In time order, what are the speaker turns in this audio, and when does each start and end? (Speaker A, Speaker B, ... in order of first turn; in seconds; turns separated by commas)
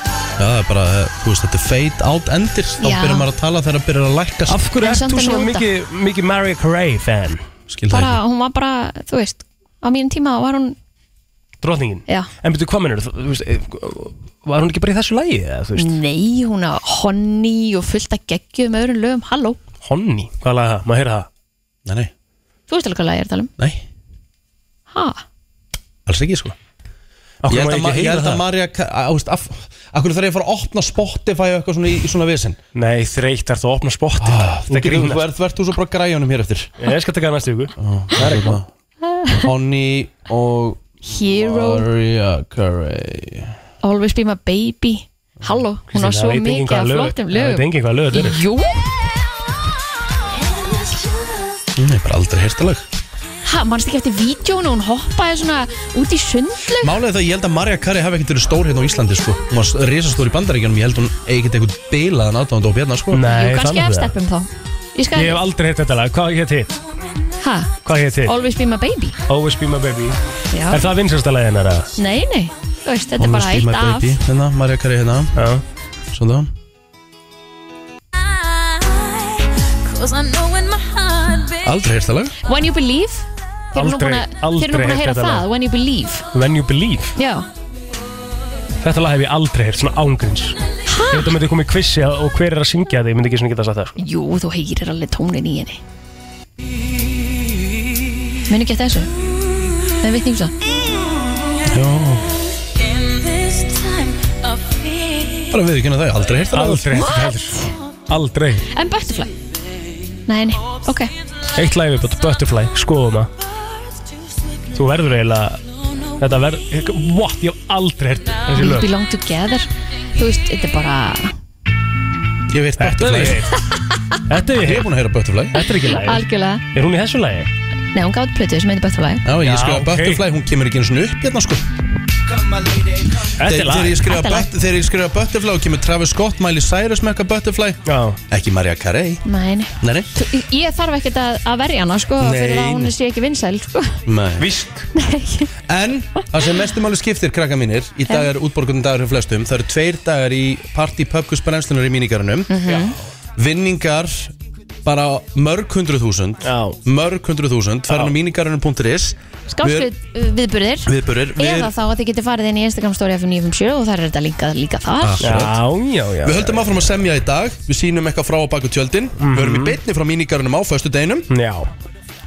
Speaker A: 0.4-4.7, Speaker B: 2.8-3.3, Speaker C: 4.5-7.4, Speaker B: 4.8-5.7, Speaker A: 7.7-8.2, Speaker B: 7.9-10.8, Speaker C: 11.6-16.0, Speaker B: 15.8-19.6, Speaker C: 19.8-21.3, Speaker A: 21.9-22.1, Speaker B: 22.7-23.5, Speaker A: 23.6-23.8, Speaker B: 24.9-25.2, Speaker A: 26.1-26.5, Speaker C: 27.4-28.4, Speaker A: 27.4-32.6, Speaker C: 32.8-35.2, Speaker A: 34.2-36.7, Speaker C: 36.8-38.6, Speaker A: 37.8-38.7, Speaker B: 39.1-39.5, Speaker A: 39.4-43.5, Speaker B: 41.1-41.9, Speaker B: 43.8-48.9, Speaker C: 45.9-48.4, Speaker A: 51.8-52.8, Speaker B: 53.5-57.0, Speaker A: 56.8-63.2, Speaker C: 63.1-64.1, Speaker B: 63.2-65.4, Speaker C: 65.2-66.7, Speaker B: 67.4-69.2, Speaker C: 67.8-68.3, Speaker C: 69.3-70.2, Speaker B: 70.5-70.8, Speaker C: 70.7-71.9, Speaker B: 72.0-74.2, Speaker A: 73.2-75.5, Speaker C: 75.4-75.6, Speaker A: 76.1-76.5, Speaker A: 81.5-82.3, Speaker B: 82.5-86.3, Speaker C: 83.8-85.5, Speaker C: 86.3-87.2, Speaker B: 87.2-87.5, Speaker C: 88.8-90.6, Speaker B: 90.9-91.4, Speaker C: 91.1-94.0, Speaker B: 94.0-95.8, Speaker B: 98.5-99.1, Speaker B: 99.9-100.5, Speaker A: 101.7-102.3, Speaker A: 105.5-107.0, Speaker C: 106.5-108.7, Speaker B: 106.9-107.7, Speaker B: 108.7-109.3, Speaker B: 110.3-111.1, Speaker C: 111.5-113.3, Speaker C: 114.7-115.6, Speaker C: 116.2-118.9, Speaker B: 118.6-121.3, Speaker A: 122.5-123.5, Speaker C: 122.8-123.6, Speaker C: 124.3-124.9, Speaker A: 124.6-125.6, Speaker C: 125.5-127.5, Speaker B: 125.9-126.6, Speaker B: 127.9-129.3, Speaker A: 129.2-131.6, Speaker C: 129.4-130.2, Speaker C: 133.4-134.0, Speaker A: 133.4-139.2, Speaker B: 134.0-134.5, Speaker C: 137.9-138.2, Speaker B: 139.2-144.0, Speaker A: 139.8-140.1, Speaker A: 142.2-142.9, Speaker A: 144.1-144.5, Speaker C: 144.4-144.9, Speaker B: 144.9-145.5, Speaker A: 145.7-152.7, Speaker B: 152.5-152.9, Speaker A: 153.4-154.3, Speaker A: 154.8-159.9, Speaker C: 156.4-156.8, Speaker C: 157.9-158.1, Speaker B: 159.5-165.4, Speaker A: 160.9-161.7, Speaker A: 165.0-165.6, Speaker C: 165.2-166.7, Speaker A: 166.2-171.3, Speaker C: 169.2-169.8, Speaker C: 171.3-171.7